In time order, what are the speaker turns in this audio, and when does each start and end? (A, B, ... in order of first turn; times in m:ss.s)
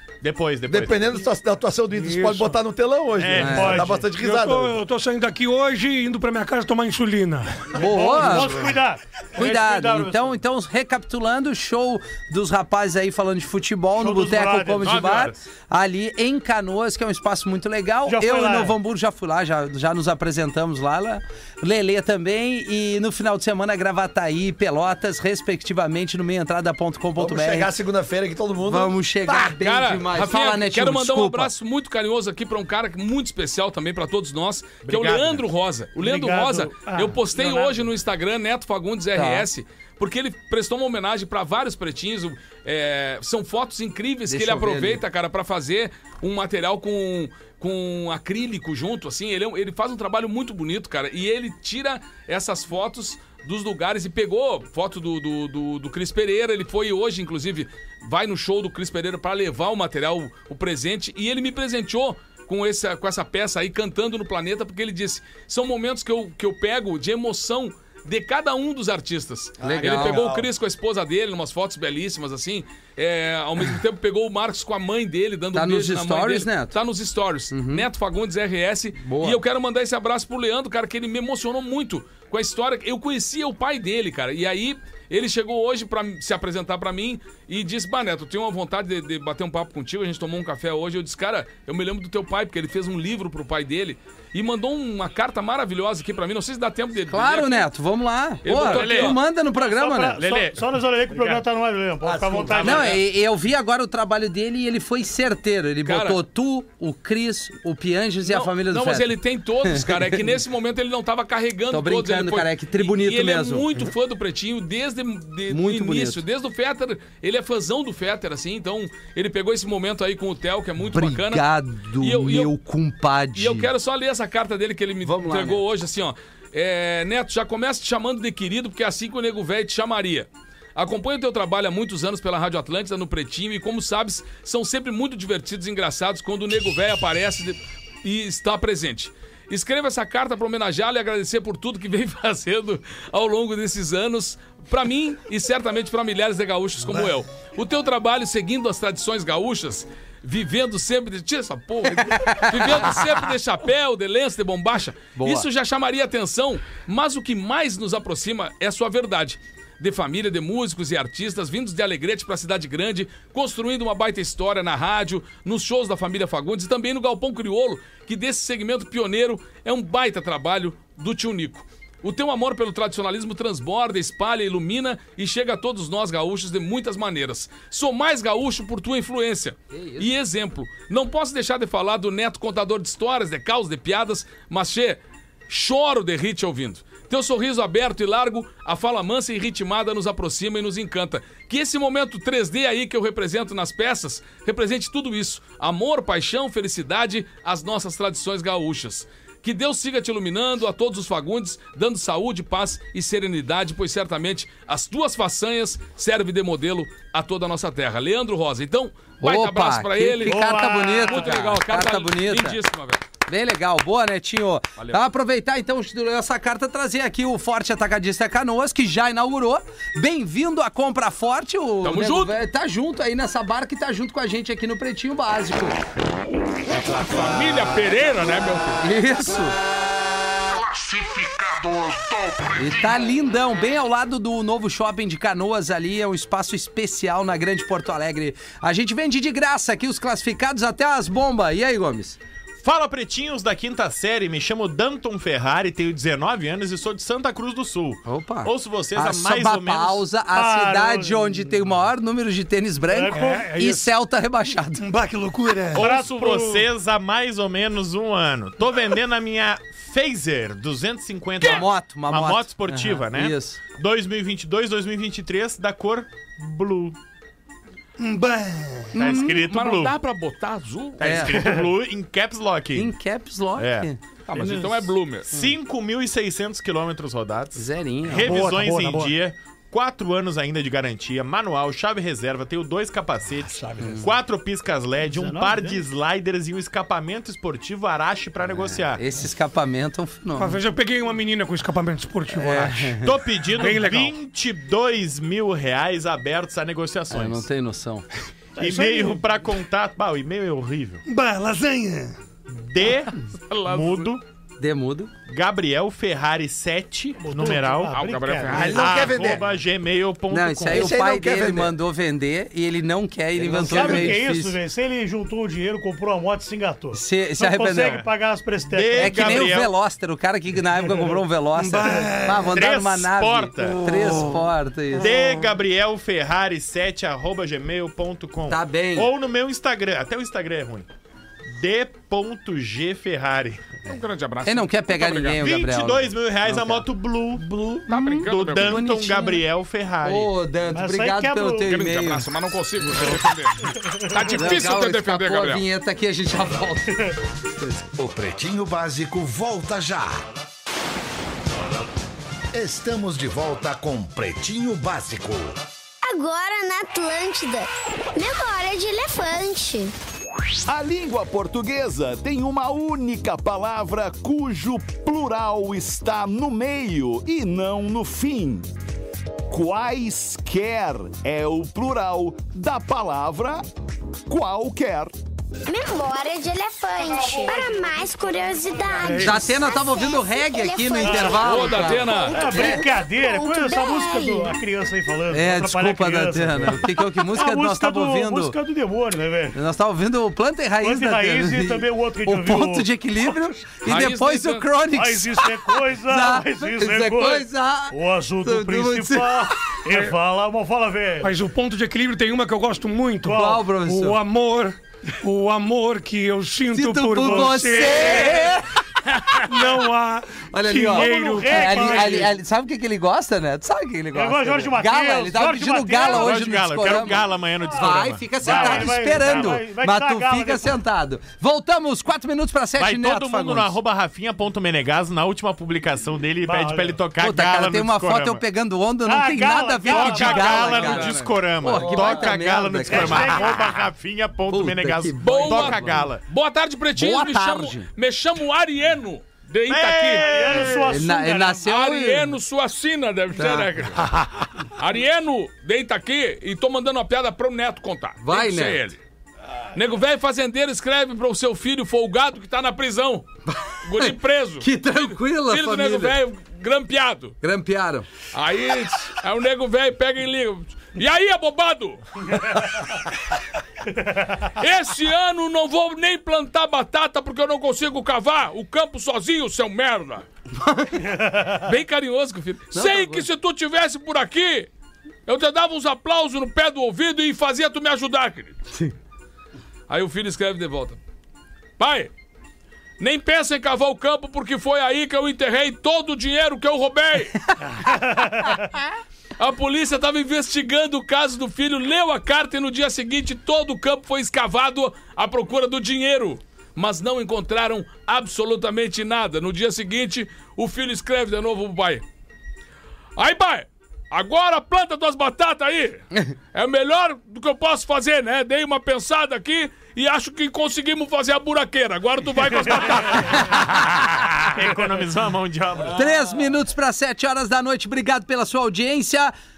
0:00.2-0:01.2 A
0:00.7-0:04.8 B
0:01.9-0:02.6 C
0:03.2-0:04.0 A
0:03.4-0:03.8 D
0:03.4-0:04.1 E
0:04.1-0:08.7 C
0:07.8-0:08.7 D
0:07.8-0:10.4 E
0:09.4-0:27.7 D
0:14.0-0:15.1 E
0:14.8-0:15.4 A
0:18.1-0:18.8 E
0:27.2-0:29.6 B
0:28.6-0:31.5 D
0:29.6-1:37.7 F
0:34.8-0:35.4 A
0:36.0-0:37.8 E
0:39.1-0:39.5 D
0:44.3-0:45.0 D
1:09.6-1:10.5 B
1:09.6-1:10.3 D
1:15.5-1:16.8 D
1:17.5-1:17.9 D
1:19.0-1:19.4 D
1:37.1-1:40.2 D
1:38.4-1:39.2 F
1:38.6-1:39.2 A
1:39.6-1:42.9 E
1:40.1-1:41.5 A
1:42.0-1:42.8 B
1:42.5-1:43.0 A
1:42.6-1:49.1 D
1:45.9-1:46.2 F
1:48.3-2:02.5 F
1:49.6-1:50.3 D
1:51.7-1:53.7 D
1:55.5-1:56.2 D
2:00.9-2:03.7 D
2:03.4-3:30.4 F
2:05.0-2:05.6 D
2:31.9-2:33.2 D
2:35.2-2:35.5 D
2:59.7-3:00.1 D
3:29.2-3:32.6 D
3:30.2-3:31.3 E
3:31.0-3:33.1 F
3:33.3-3:45.8 D
3:41.8-3:42.4 F
3:46.7-3:48.9 F
3:48.8-3:49.6 D
3:50.7-3:52.5 G
3:52.6-4:02.2 D
4:02.6-4:10.0 A
4:08.0-4:14.8 D
4:10.3-4:11.6 E
4:12.9-4:13.5 E
4:13.1-4:13.9 C
4:14.8-4:15.9 C
4:15.8-4:27.0 A
4:15.8-4:16.7 E
4:21.4-4:23.6 D
4:28.0-4:28.9 C
4:28.9-4:29.9 A
4:29.0-4:31.3 F
4:31.0-4:32.9 A
4:31.0-4:31.3 D
4:31.3-4:31.7 E
4:32.8-4:34.0 D
4:33.6-4:33.9 A
4:34.3-4:35.3 F
4:34.3-4:34.9 E
4:35.3-4:49.0 A
4:37.6-4:38.4 D
4:38.2-4:39.2 C
4:43.8-4:44.1 D
4:45.0-4:45.8 E
4:48.6-4:50.6 D
4:50.4-4:53.0 C
4:52.3-4:53.0 D
4:53.0-4:57.4 A
4:53.6-4:54.2 C
4:57.1-4:58.1 D
4:58.6-4:59.3 E
4:58.6-5:01.0 A
5:01.1-5:02.2 C
5:02.5-5:04.2 A
5:03.3-5:04.1 F
5:04.6-5:05.1 D
5:05.3-5:08.0 A
5:07.2-5:08.8 E
5:07.9-5:09.0 F
5:08.5-5:09.4 B
5:08.6-5:11.0 A
5:10.3-5:14.6 D
5:10.7-5:11.8 B
5:13.4-5:14.2 A
5:13.5-5:19.5 E
5:16.9-5:18.0 D
5:18.7-5:19.7 A
5:19.0-5:25.1 D
5:21.0-5:22.6 C
5:22.5-5:23.8 A
5:23.6-5:24.5 C
5:25.0-5:30.9 A
5:28.5-5:29.1 D
5:31.5-5:33.8 A
5:33.9-5:35.4 F
5:34.4-5:36.8 D
5:35.4-5:40.3 A
5:37.9-5:38.9 F
5:37.9-5:39.4 D
5:40.0-5:42.3 D
5:40.7-5:41.8 E
5:41.6-5:45.6 F
5:43.7-5:44.5 E
5:44.3-5:47.1 D
5:47.8-5:50.2 G
5:52.5-5:55.6 G
5:56.0-5:59.9 H
6:00.7-6:08.7 I
6:09.5-6:13.6 I
6:14.3-6:15.1 I
6:15.7-6:24.6 H
6:19.0-6:19.4 C
6:19.2-6:22.2 D
6:21.0-6:21.4 E
6:21.4-6:22.4 F
6:22.3-6:29.6 E
6:25.3-6:28.6 D
6:29.5-6:39.6 D
6:30.8-6:33.3 E
6:33.8-6:34.7 F
6:34.9-6:41.3 E
6:39.9-6:40.2 C
6:41.2-6:48.5 C
6:43.3-6:44.2 D
6:43.3-6:43.7 E
6:46.7-6:48.7 D
6:47.2-6:48.4 E
6:49.4-6:52.3 C
6:50.5-7:03.8 D
6:50.9-6:52.3 E
6:54.1-6:56.4 E
6:56.0-6:59.4 A
6:57.7-7:00.7 E
7:02.8-7:08.4 A
7:06.4-7:07.0 E
7:07.2-7:13.5 D
7:09.0-7:10.8 E
7:09.9-7:16.2 A
7:09.9-7:11.4 F
7:11.7-7:12.4 B
7:12.8-7:13.8 E
7:14.5-7:16.0 D
7:15.2-7:20.7 F
7:17.0-7:17.9 D
7:19.7-7:21.0 A
7:20.2-7:21.7 E
7:20.8-7:22.3 D
7:21.6-7:24.0 F
7:23.4-7:24.2 D
7:24.8-7:29.0 F
7:28.2-7:28.8 D
7:29.7-7:33.3 F
7:33.5-7:36.2 D
7:33.8-7:37.4 F
7:37.4-7:38.1 D
7:38.3-7:42.5 F
7:44.6-7:50.3 F
7:50.6-7:51.1 D
7:51.1-7:51.5 E
7:51.6-7:54.7 F
7:52.7-7:53.3 D
7:55.3-7:58.6 F
7:59.9-8:01.0 F
8:01.8-8:02.1 F
8:03.0-8:07.4 F
8:07.5-8:07.8 D
8:07.9-8:08.5 E
8:09.4-8:22.0 F
8:23.2-8:33.9 F
8:32.8-8:33.5 E
8:33.2-8:34.1 D
8:34.5-8:36.1 A
8:35.9-8:39.3 D